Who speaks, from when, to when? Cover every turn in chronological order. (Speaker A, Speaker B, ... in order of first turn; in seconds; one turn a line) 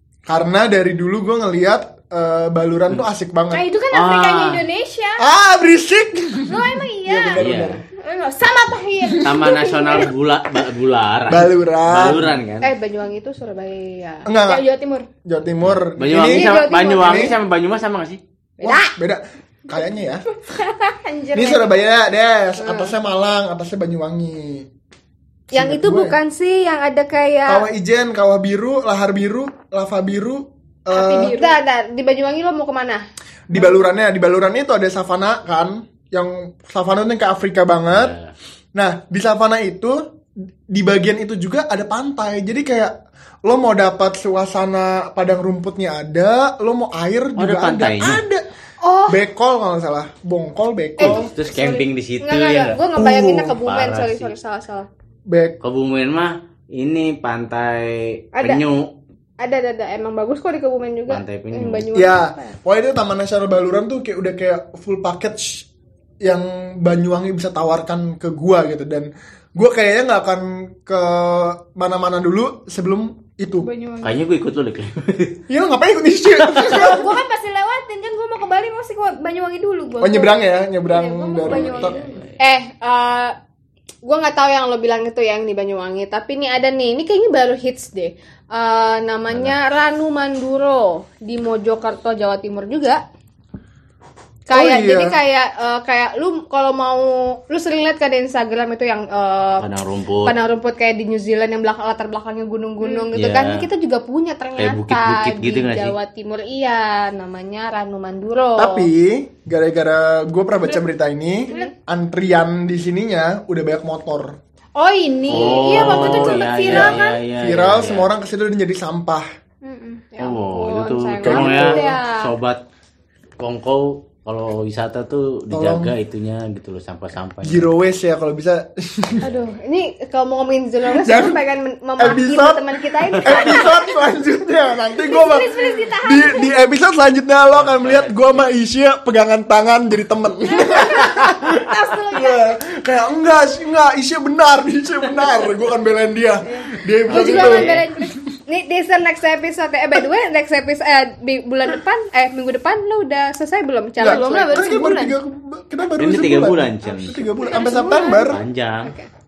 Speaker A: 0.3-3.7
Speaker B: 3.5-5.2
Speaker C: 3.9-4.6
Speaker A: 5.2-7.8
Speaker B: 6.5-7.4
Speaker C: 7.4-7.8
Speaker B: 8.0-10.1
Speaker C: 9.2-12.7
Speaker A: 11.3-12.3
Speaker D: 12.6-14.3
Speaker A: 14.2-14.6
Speaker B: 14.4-15.1
Speaker A: 15.2-17.3
Speaker C: 15.6-18.2
Speaker B: 16.1-17.3
Speaker A: 18.6-20.2
Speaker D: 18.6-18.9
Speaker B: 20.5-21.7
Speaker A: 21.3-24.7
Speaker D: 22.6-22.9
Speaker A: 25.5-26.2
Speaker D: 25.5-27.6
Speaker A: 27.4-31.4
Speaker B: 30.9-31.6
Speaker D: 31.2-33.0
Speaker A: 33.5-38.1
Speaker C: 37.9-38.3
Speaker A: 38.7-40.0
Speaker A: 40.7-42.9
Speaker A: 43.4-48.4
Speaker C: 47.4-48.2
Speaker D: 48.9-49.1
Speaker A: 49.1-51.3
Speaker C: 51.0-52.8
Speaker B: 51.1-51.8
Speaker D: 52.2-54.9
Speaker A: 52.9-53.5
Speaker C: 53.5-54.4
Speaker A: 55.3-55.6
Speaker C: 55.6-58.9
Speaker D: 59.4-62.5
Speaker C: 61.1-61.9
Speaker A: 61.9-65.7
Speaker A: 66.2-73.7
Speaker B: 73.6-74.2
Speaker C: 74.0-75.4
Speaker A: 75.5-77.1
Speaker C: 76.4-76.9
Speaker B: 76.6-82.2
Speaker A: 80.0-82.0
Speaker C: 81.4-82.4
Speaker D: 82.4-83.3
Speaker D: 84.0-93.0
Speaker C: 89.3-89.6
Speaker D: 94.5-99.7
Speaker A: 94.5-95.1
Speaker C: 99.6-100.3
Speaker D: 100.2-108.9
Speaker B: 102.8-103.1
Speaker C: 103.1-103.7
Speaker C: 104.6-106.0
Speaker A: 108.5-114.3
Speaker B: 114.8-117.2
Speaker C: 115.3-118.1
Speaker D: 115.3-115.8
Speaker A: 115.8-119.2
Speaker B: 119.6-120.1
Speaker D: 120.1-122.3
Speaker C: 120.2-122.6
Speaker A: 121.2-122.0
Speaker C: 123.4-127.7
Speaker A: 125.5-125.9
Speaker A: 127.4-129.2
Speaker C: 129.1-129.4
Speaker D: 129.2-133.9
Speaker A: 130.9-131.4
Speaker A: 132.0-147.7
Speaker C: 133.1-133.6
Speaker B: 135.0-136.5
Speaker C: 137.5-138.4
Speaker B: 140.5-142.4
Speaker B: 146.5-148.1
Speaker C: 147.1-147.9
Speaker D: 148.5-154.8
Speaker B: 154.0-155.1
Speaker A: 154.0-158.4
Speaker C: 156.0-157.2
Speaker B: 157.4-158.3
Speaker C: 158.3-158.9
Speaker D: 158.8-159.1